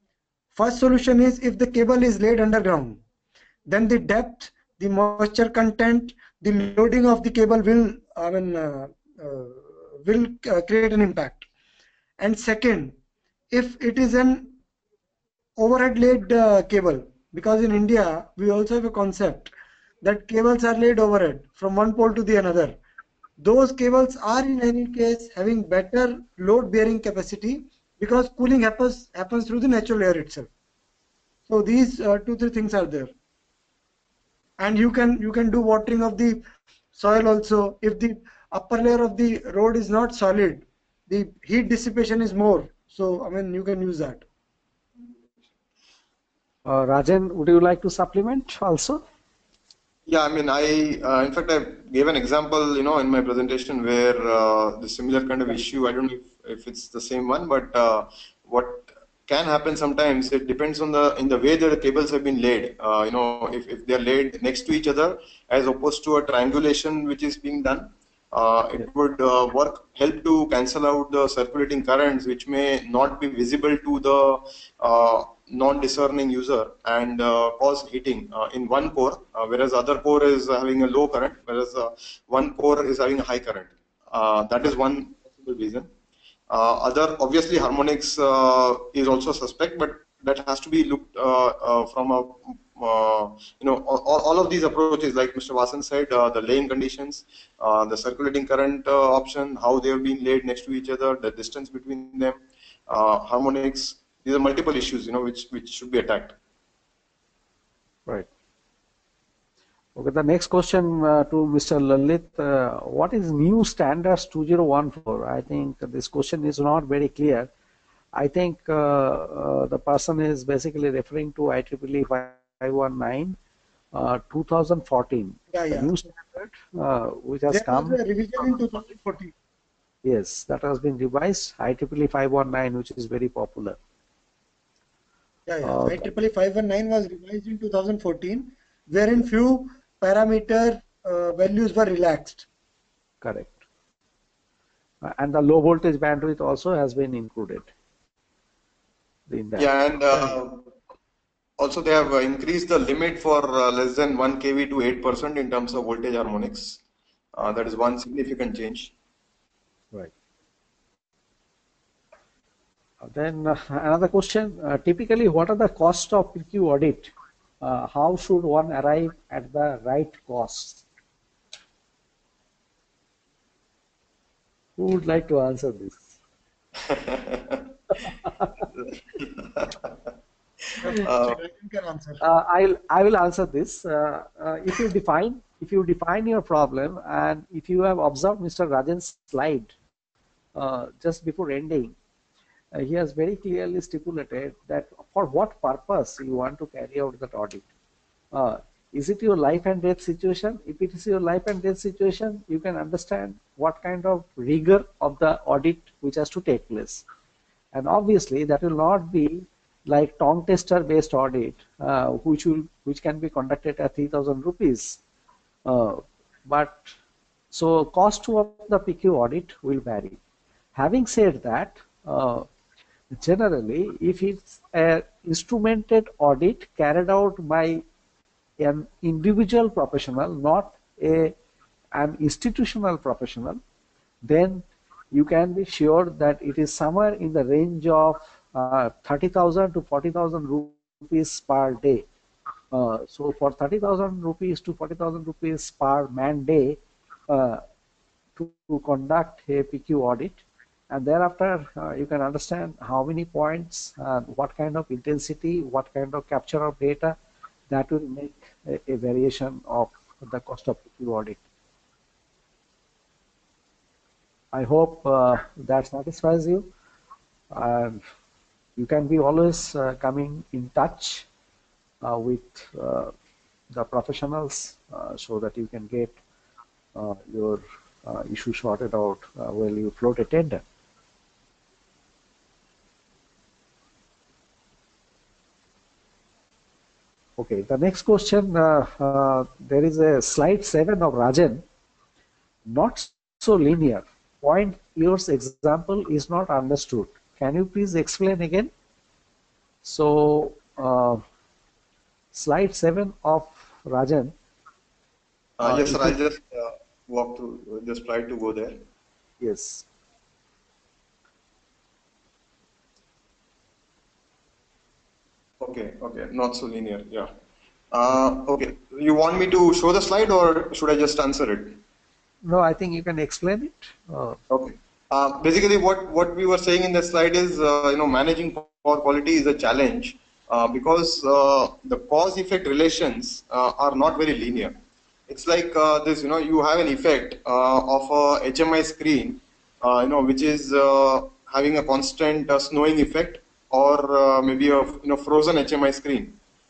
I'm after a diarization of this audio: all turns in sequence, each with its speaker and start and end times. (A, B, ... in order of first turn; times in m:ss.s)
0:00.6-0:03.0 A
0:03.7-0:11.5 A
0:12.2-0:13.0 A
0:13.5-0:14.5 A
0:15.6-0:19.5 A
0:20.0-0:22.8 A
0:23.4-0:30.5 A
0:31.5-0:33.1 A
0:34.6-0:36.4 A
0:37.0-0:44.2 A
0:46.7-0:49.0 B
0:50.1-1:25.9 C
1:26.5-1:46.4 C
1:50.0-1:57.5 B
1:58.2-2:03.4 B
2:03.9-2:08.0 B
2:05.5-2:05.9 A
2:07.5-2:09.3 A
2:10.0-2:13.8 B
2:15.5-2:22.5 A
2:15.6-2:16.0 B
2:23.2-2:23.6 B
2:25.0-2:27.7 B
2:29.3-2:29.7 B
2:29.6-2:30.7 C
2:31.6-2:36.8 C
2:37.4-2:38.9 C
2:43.0-2:50.8 B
2:54.8-2:56.1 B
2:56.8-2:57.7 C
2:58.1-2:58.5 B
2:59.0-2:59.9 C
3:00.8-3:01.4 C
3:00.8-3:02.2 A
3:02.2-3:09.7 B
3:10.6-3:12.0 B
3:12.7-3:17.7 B
3:18.3-3:27.0 B
3:27.7-3:35.0 B
3:35.7-3:36.9 B
3:37.5-3:40.2 B
3:40.7-3:42.5 B
3:43.1-3:47.8 B
3:48.6-3:51.3 B
3:52.0-3:53.6 B
3:54.2-4:02.1 B
4:02.7-4:07.6 B
4:08.4-4:17.2 B
4:17.7-4:21.4 B
4:24.5-4:26.7 B
4:27.5-4:28.0 B
4:28.8-4:31.3 B
4:32.0-4:33.1 B
4:33.7-4:36.2 B
4:37.0-4:40.6 B
4:47.4-4:51.6 B
4:52.7-4:58.7 B
4:59.8-5:01.2 B
5:02.3-5:04.4 B
5:05.6-5:08.8 C
5:05.6-5:06.2 B
5:09.4-5:09.9 B
5:15.6-5:17.3 C
5:17.9-5:21.8 C
5:22.4-5:24.4 B
5:24.5-5:34.8 C
5:35.3-5:46.4 C